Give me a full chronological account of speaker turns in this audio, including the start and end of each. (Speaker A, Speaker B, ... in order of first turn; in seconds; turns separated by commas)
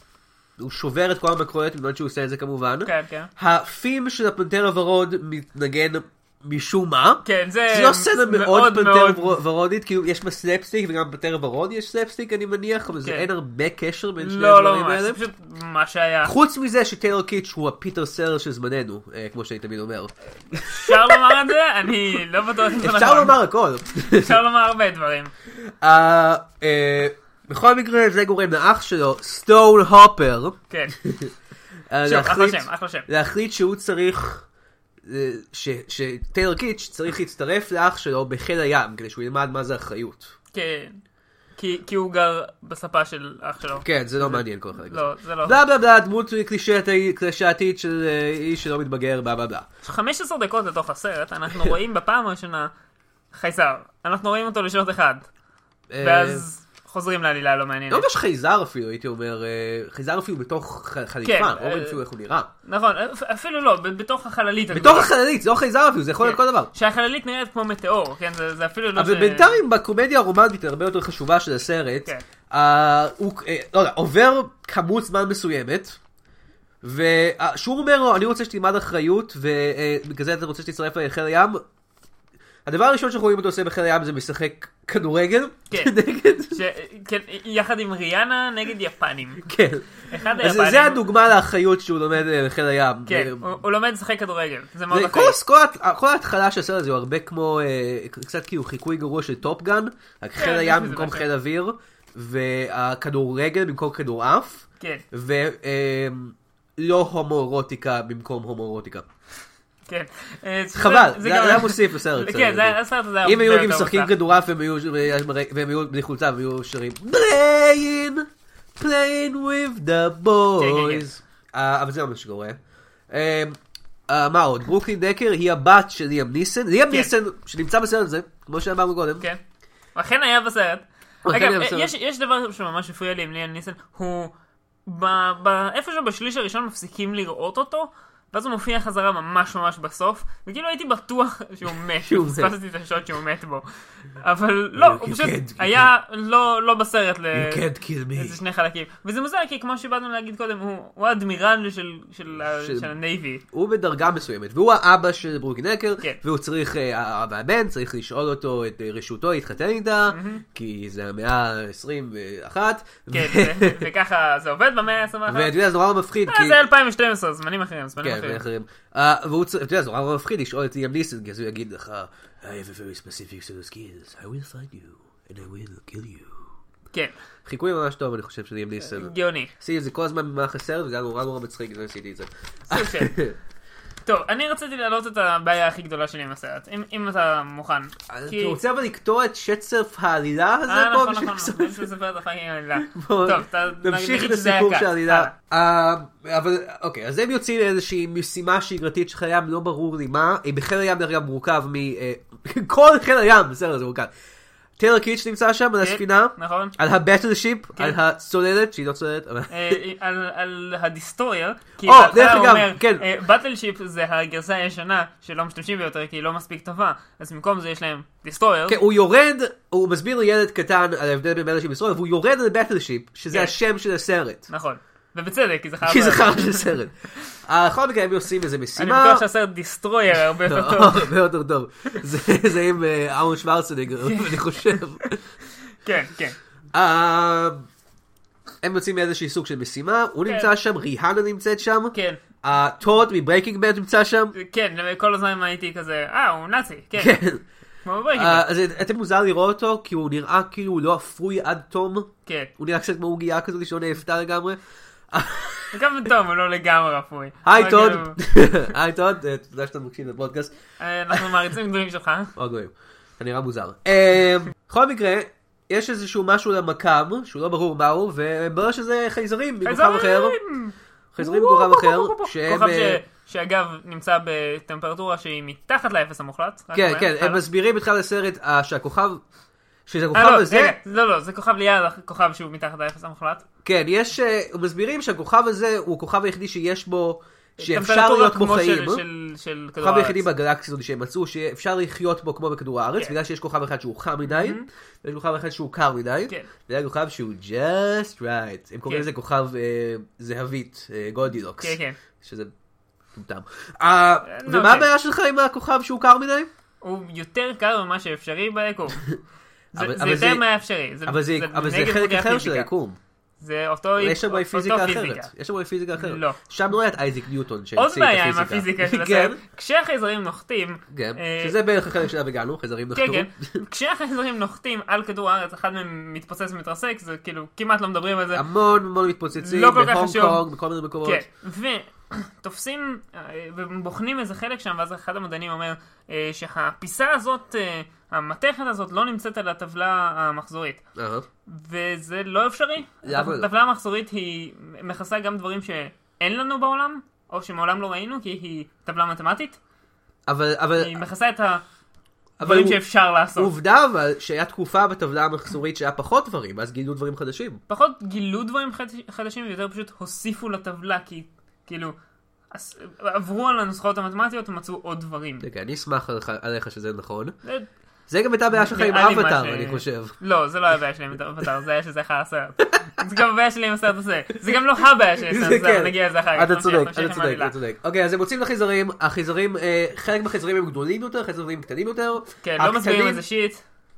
Speaker A: 0.6-15.2, Speaker B: 2.9-3.3, Speaker B: 7.2-9.4, Speaker B: 13.0-13.3, Speaker B: 14.2-16.3, Speaker A: 16.2-21.4, Speaker B: 20.5-23.4, Speaker A: 22.8-24.4, Speaker B: 24.0-25.3, Speaker A: 25.7-31.3, Speaker B: 30.7-30.9, Speaker A: 31.9-34.5, Speaker B: 32.0-33.1, Speaker A: 35.0-40.3, Speaker B: 40.5-41.0, Speaker B: 41.6-45.6, Speaker A: 43.8-49.7, Speaker B: 49.8-52.7, Speaker B: 53.3-55.2, Speaker A: 55.9-56.5, Speaker B: 56.0-58.1, Speaker A: 57.9-62.5, Speaker B: 61.2-62.0, Speaker B: 62.6-65.1, Speaker A: 64.7-66.7, Speaker B: 66.2-69.6, Speaker A: 69.0-76.0, Speaker A: 76.8-81.6, Speaker A: 82.7-86.6, Speaker B: 86.5-89.5, Speaker A: 89.4-93.5, Speaker B: 90.1-91.0, Speaker B: 93.1-95.4, Speaker A: 94.9-109.1, Speaker B: 100.4-101.3, Speaker B: 109.9-114.1, Speaker A: 110.8-122.6, Speaker B: 120.6-121.1, Speaker A: 123.1-123.6, Speaker A: 124.1-129.3, Speaker B: 129.9-134.3, Speaker A: 131.3-131.9, Speaker B: 134.8-153.4, Speaker A: 142.0-142.5, Speaker A: 144.8-145.9, Speaker A: 147.3-148.4, Speaker A: 152.6-152.9, Speaker A: 153.5-163.9, Speaker B: 160.1-160.4, Speaker B: 163.1-165.6, Speaker A: 165.3-166.6, Speaker B: 166.3-168.4, Speaker A: 168.0-176.4, Speaker A: 177.4-183.4, Speaker B: 178.8-179.5, Speaker B: 182.7-183.1, Speaker B: 184.1-188.6, Speaker A: 188.1-191.9, Speaker B: 190.7-195.3, Speaker A: 192.8-204.1, Speaker A: 204.8-209.8, Speaker B: 205.8-206.8, Speaker B: 209.5-218.8, Speaker A: 211.8-213.1, Speaker A: 218.7-224.5, Speaker B: 224.5-226.7, Speaker A: 225.8-226.9, Speaker A: 227.4-229.2, Speaker B: 228.8-231.1, Speaker A: 230.4-235.2, Speaker B: 234.0-234.8, Speaker B: 235.8-236.4, Speaker A: 236.7-237.7, Speaker A: 238.6-244.3, Speaker B: 240.3-240.5, Speaker B: 241.9-242.2, Speaker B: 244.3-247.2, Speaker A: 247.0-247.4, Speaker B: 247.8-248.5, Speaker A: 248.1-254.6, Speaker B: 252.3-252.5, Speaker A: 255.1-255.8, Speaker B: 255.7-258.2, Speaker A: 257.4-260.5, Speaker B: 260.8-262.3, Speaker A: 262.4-270.4, Speaker B: 269.6-277.4, Speaker A: 271.1-273.0, Speaker A: 276.7-279.2, Speaker A: 279.9-280.8, Speaker B: 280.1-283.4, Speaker A: 283.6-289.0, Speaker B: 287.6-290.3, Speaker A: 289.8-302.5, Speaker B: 294.2-294.7, Speaker B: 301.6-302.0, Speaker A: 303.1-306.5, Speaker B: 304.3-304.9, Speaker B: 306.8-309.0, Speaker B: 309.7-312.7, Speaker A: 309.8-310.4, Speaker A: 311.1-313.0, Speaker B: 313.4-315.3, Speaker A: 314.0-319.4, Speaker B: 316.0-316.4, Speaker B: 317.8-321.6, Speaker A: 320.9-323.6, Speaker B: 322.9-328.4, Speaker A: 328.3-331.2, Speaker B: 329.4-330.4, Speaker B: 331.0-340.8, Speaker A: 341.0-341.2, Speaker B: 341.5-349.6, Speaker A: 343.0-343.5, Speaker A: 350.3-351.0, Speaker B: 350.8-351.6, Speaker A: 352.4-352.8, Speaker B: 352.4-353.5, Speaker A: 353.4-357.6, Speaker B: 357.7-361.9, Speaker B: 362.5-365.4, Speaker A: 365.4-367.4, Speaker B: 367.4-367.7, Speaker A: 368.1-370.2, Speaker B: 368.5-377.5, Speaker A: 375.2-383.2, Speaker B: 382.4-383.6